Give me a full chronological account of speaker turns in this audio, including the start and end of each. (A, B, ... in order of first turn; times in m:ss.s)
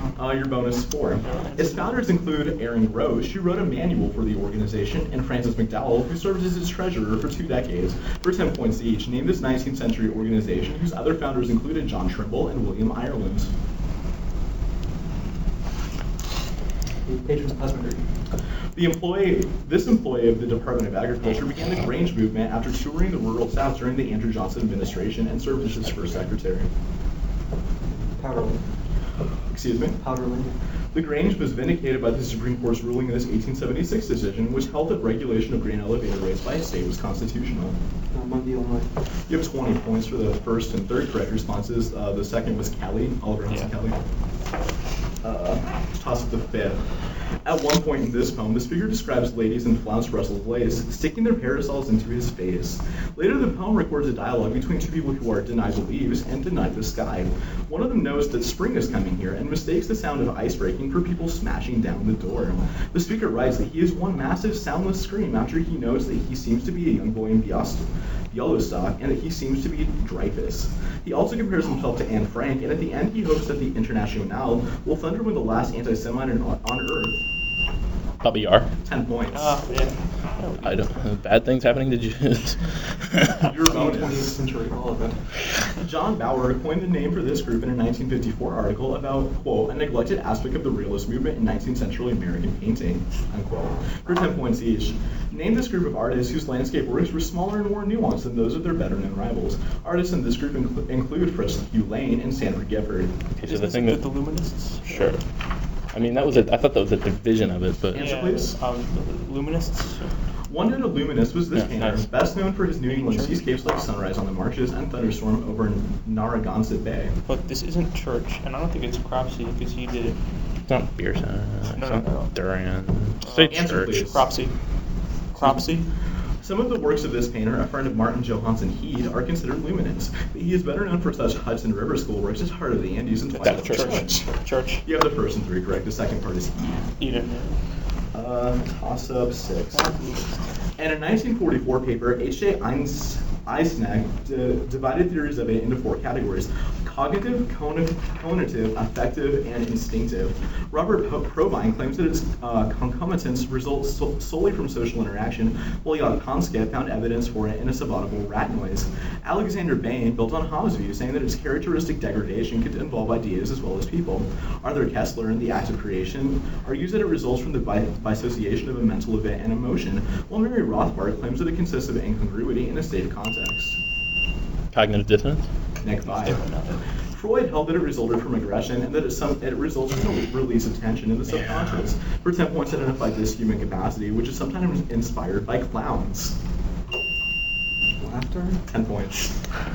0:00.1-0:13.5 A
0:01.2-0:02.0 B
0:17.1-0:18.0 C
0:18.8-0:26.7 A
0:27.9-0:28.6 C
0:29.5-0:30.0 A
0:30.0-0:30.5 C
0:30.9-0:37.8 A
0:38.1-0:38.9 C
0:39.3-0:44.0 A
0:45.2-0:46.9 A
0:47.4-1:17.2 A
1:18.2-1:18.7 D
1:18.8-1:19.6 A
1:19.3-1:20.9 B
1:20.6-1:23.4 D
1:23.4-1:24.4 A
1:23.6-1:25.2 C
1:25.8-1:43.2 A
1:43.4-1:44.1 D
1:43.4-1:45.1 B
1:44.8-1:45.2 D
1:45.9-1:48.1 D
1:47.9-1:48.6 A
1:47.9-1:50.1 B
1:50.5-1:57.1 A
1:51.5-1:52.1 D
1:52.9-1:53.4 B
1:57.2-2:00.2 B
2:00.7-2:04.0 D
2:01.7-2:02.3 B
2:03.2-2:04.5 B
2:03.5-2:04.2 A
2:05.3-2:05.7 A
2:05.3-2:05.9 B
2:06.4-2:14.2 A
2:13.4-2:14.8 B
2:13.4-2:14.1 D
2:14.8-2:16.9 A
2:17.0-2:17.6 B
2:18.1-2:19.9 A
2:19.7-2:20.4 B
2:20.8-2:53.8 A
2:54.7-2:55.4 D
2:55.8-2:56.4 A
2:56.1-2:56.8 B
2:57.1-3:06.3 A
3:01.3-3:01.8 D
3:08.0-3:08.6 C
3:08.7-3:09.3 A